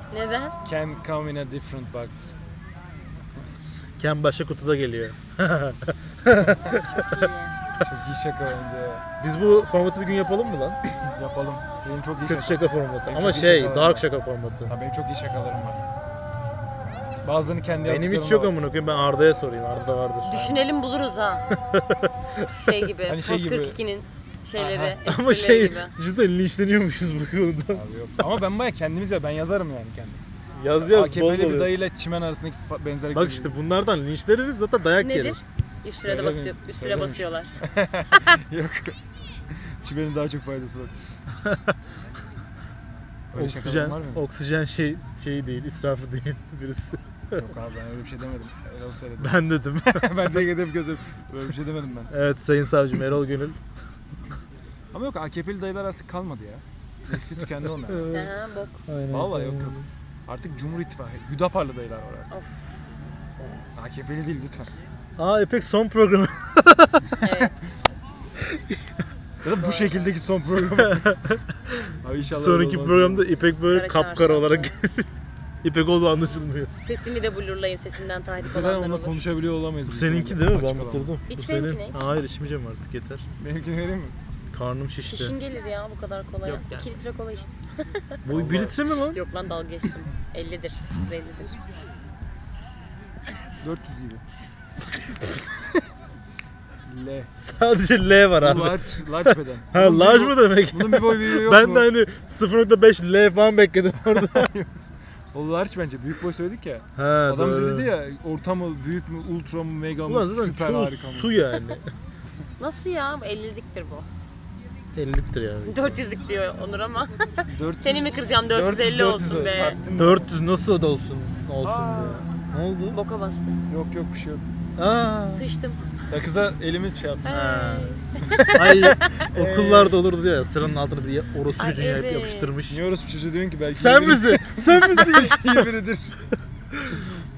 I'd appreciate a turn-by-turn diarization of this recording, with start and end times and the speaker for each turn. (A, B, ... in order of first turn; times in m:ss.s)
0:00.1-0:00.6 A
0:00.6-0:02.3 B
0:04.0-0:07.3 C
0:06.6-0:07.5 A
0:07.8-0:09.0 B
0:09.2-0:10.8 C
0:11.0-0:14.1 B
0:12.3-0:14.7 C
0:14.7-0:15.8 B
0:17.2-0:18.6 B
0:17.8-0:20.4 C
0:20.2-0:21.4 A
0:20.4-0:20.7 B
0:21.5-0:22.9 C
0:22.5-0:25.9 A
0:23.1-0:23.8 B
0:24.6-0:25.0 B
0:25.0-0:27.8 C
0:27.7-0:30.2 B
0:30.6-0:31.8 C
0:30.8-0:33.6 B
0:33.1-0:35.4 C
0:35.0-0:37.5 A
0:36.0-0:39.0 B
0:39.5-0:40.9 B
0:41.4-0:41.8 C
0:43.3-0:44.2 B
0:43.4-0:47.5 C
0:47.3-0:52.1 B
0:49.2-0:50.3 C
0:52.1-0:53.6 C
0:54.9-0:58.2 B
0:57.9-0:58.3 C
0:58.1-0:58.8 A
0:58.9-0:59.9 C
0:59.1-1:02.3 B
1:02.3-1:02.8 A
1:03.8-1:04.7 B
1:05.2-1:07.4 C
1:07.2-1:07.6 A
1:09.4-1:11.1 B
1:09.5-1:10.1 A
1:10.8-1:15.1 C
1:12.0-1:13.3 B
1:13.7-1:14.7 A
1:15.6-1:16.7 C
1:16.8-1:19.2 A
1:18.4-1:21.1 B
1:19.9-1:23.3 C
1:21.3-1:22.0 A
1:23.4-1:24.2 B
1:24.5-1:25.4 C
1:25.0-1:28.2 A
1:26.4-1:27.1 B
1:28.2-1:29.2 C
1:28.3-1:28.8 B
1:29.1-1:31.6 A
1:33.6-1:34.2 B
1:36.8-1:37.3 B
1:37.4-1:44.5 C
1:38.4-1:41.9 B
1:44.0-1:44.7 B
1:45.3-1:51.4 B
1:47.0-1:47.9 C
1:50.1-1:51.9 C
1:52.6-1:54.1 A
1:54.9-1:56.0 C
1:55.7-1:59.8 A
1:57.5-2:00.3 B
1:59.9-2:03.0 C
2:01.6-2:02.2 B
2:02.9-2:03.6 A
2:03.7-2:04.5 B
2:04.8-2:05.4 C
2:05.3-2:05.8 A
2:06.0-2:07.3 B
2:07.2-2:09.3 A
2:07.3-2:12.8 C
2:09.2-2:10.0 B
2:11.6-2:12.5 A
2:12.7-2:16.3 B
2:13.7-2:15.7 C